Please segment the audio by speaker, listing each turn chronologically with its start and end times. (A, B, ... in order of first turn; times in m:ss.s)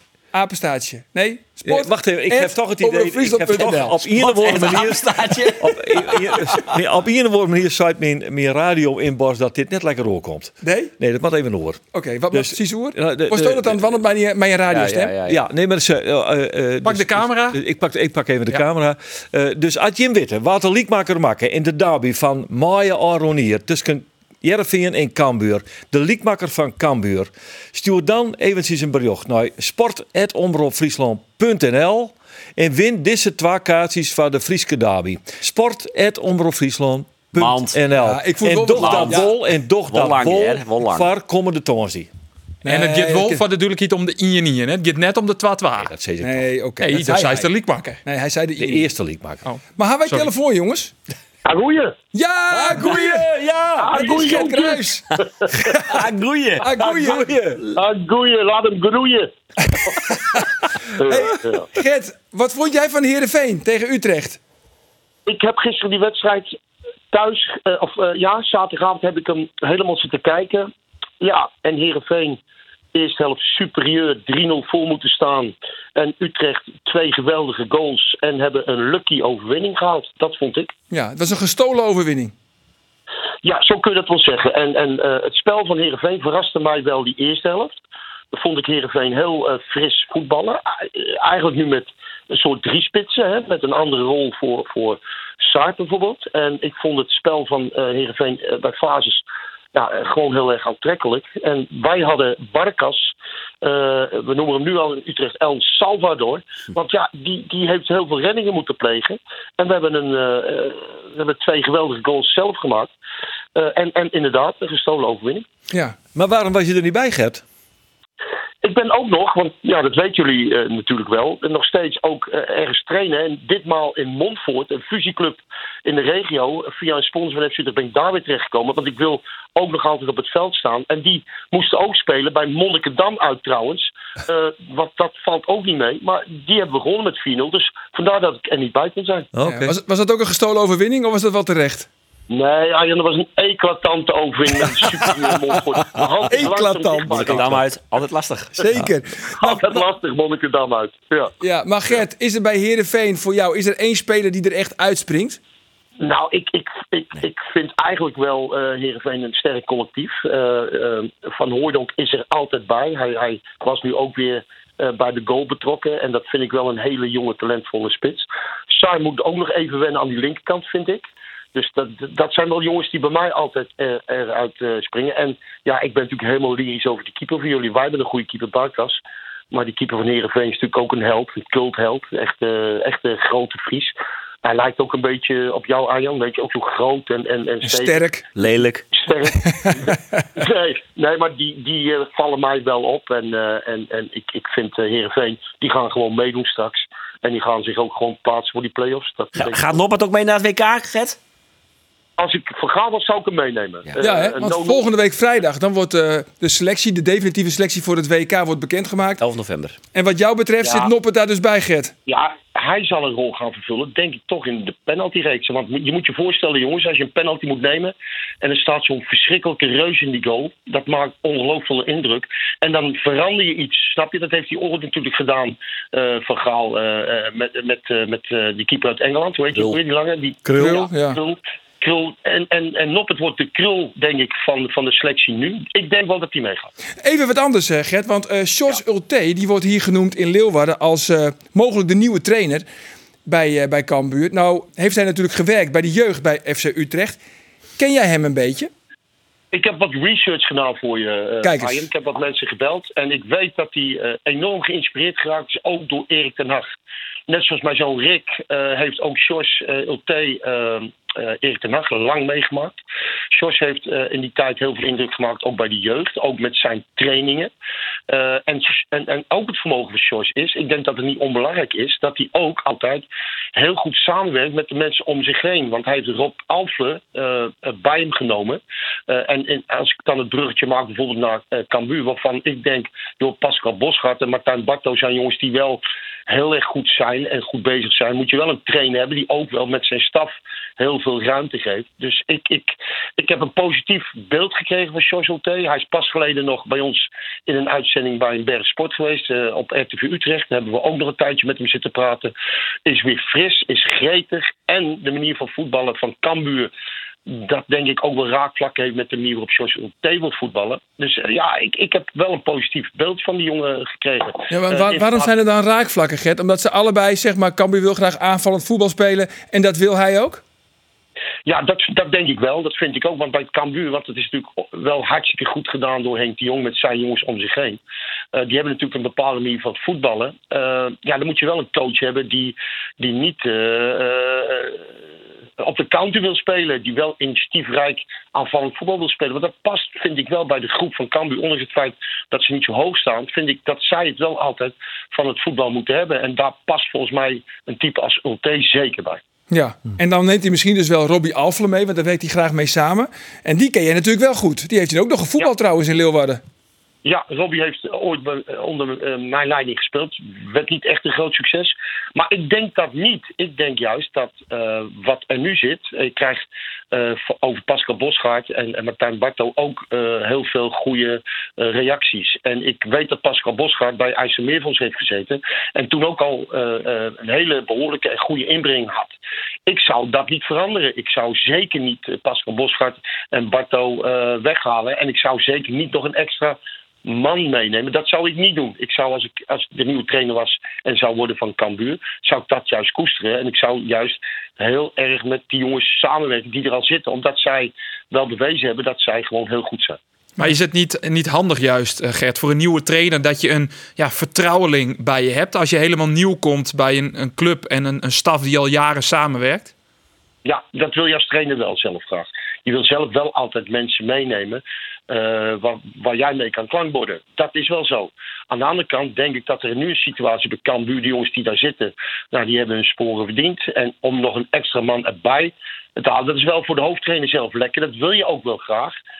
0:00.3-0:04.1 A
0:01.6-0:11.8 B
0:04.1-0:06.8 C
0:10.6-0:10.9 A
0:11.9-0:15.1 A
0:12.3-0:14.0 B
0:14.7-0:15.4 C
0:15.2-0:42.1 B
0:16.8-0:17.6 D
0:37.3-0:37.8 C
0:38.0-0:39.3 A
0:38.8-0:39.2 C
0:39.9-0:41.1 C
0:42.6-0:43.4 A
0:42.6-0:45.9 D
0:45.8-0:46.5 B
0:46.2-0:47.5 A
0:46.8-0:48.0 D
0:48.0-0:48.9 A
0:48.6-0:49.4 B
0:49.4-0:50.3 D
0:49.8-0:50.9 A
0:51.4-0:52.0 E
0:52.1-0:53.2 A
0:52.8-0:53.9 C
0:53.8-0:55.9 A
0:53.8-0:55.5 E
0:55.7-0:57.7 C
0:56.6-0:57.3 A
0:57.0-0:57.6 B
0:57.7-0:59.3 E
0:59.7-1:00.4 A
0:59.9-1:00.2 E
1:00.9-1:01.7 E
1:01.0-1:04.4 A
1:05.2-1:06.5 E
1:07.1-1:12.4 E
1:12.9-1:20.7 E
1:20.9-1:22.3 A
1:23.4-1:27.8 E
1:28.3-1:39.2 E
1:39.7-1:52.9 E
1:53.5-1:55.4 E
1:55.7-1:56.0 A
1:56.1-1:57.4 B
1:58.6-2:19.3 E
2:19.3-2:19.8 B
2:19.4-2:21.9 A
2:22.3-2:27.6 E
2:26.3-2:27.5 A
2:27.1-2:28.6 C
2:28.6-2:29.6 A
2:29.4-2:31.3 E
2:31.4-2:35.4 A
2:36.0-2:59.0 E
2:59.5-3:03.9 E
3:04.4-3:08.0 E
3:07.6-3:08.2 A
3:08.4-3:08.9 C
3:08.9-3:19.7 E
3:09.4-3:10.2 A
3:19.4-3:21.2 C
3:22.2-3:24.9 E
3:24.0-3:29.2 A
3:29.2-3:29.8 C
3:29.9-3:31.9 A
3:30.6-3:30.9 E
3:32.1-3:56.7 E
3:50.4-3:50.8 B
3:50.6-3:51.2 A
3:57.0-4:02.6 A
4:03.2-4:07.2 A
4:07.8-4:08.7 A
4:09.5-4:16.7 E
4:11.4-4:11.9 A
4:17.3-4:22.8 E
4:23.3-4:27.5 E
4:28.1-5:02.3 E
5:02.8-5:06.7 E
5:07.3-5:15.3 E
5:14.5-5:20.4 A
5:21.5-5:27.8 E
5:28.3-5:34.9 E
5:35.6-5:49.2 E
5:49.5-5:56.4 A
5:57.0-6:19.2 E
6:19.7-6:40.0 E
6:40.4-6:49.7 D
6:50.4-7:09.0 E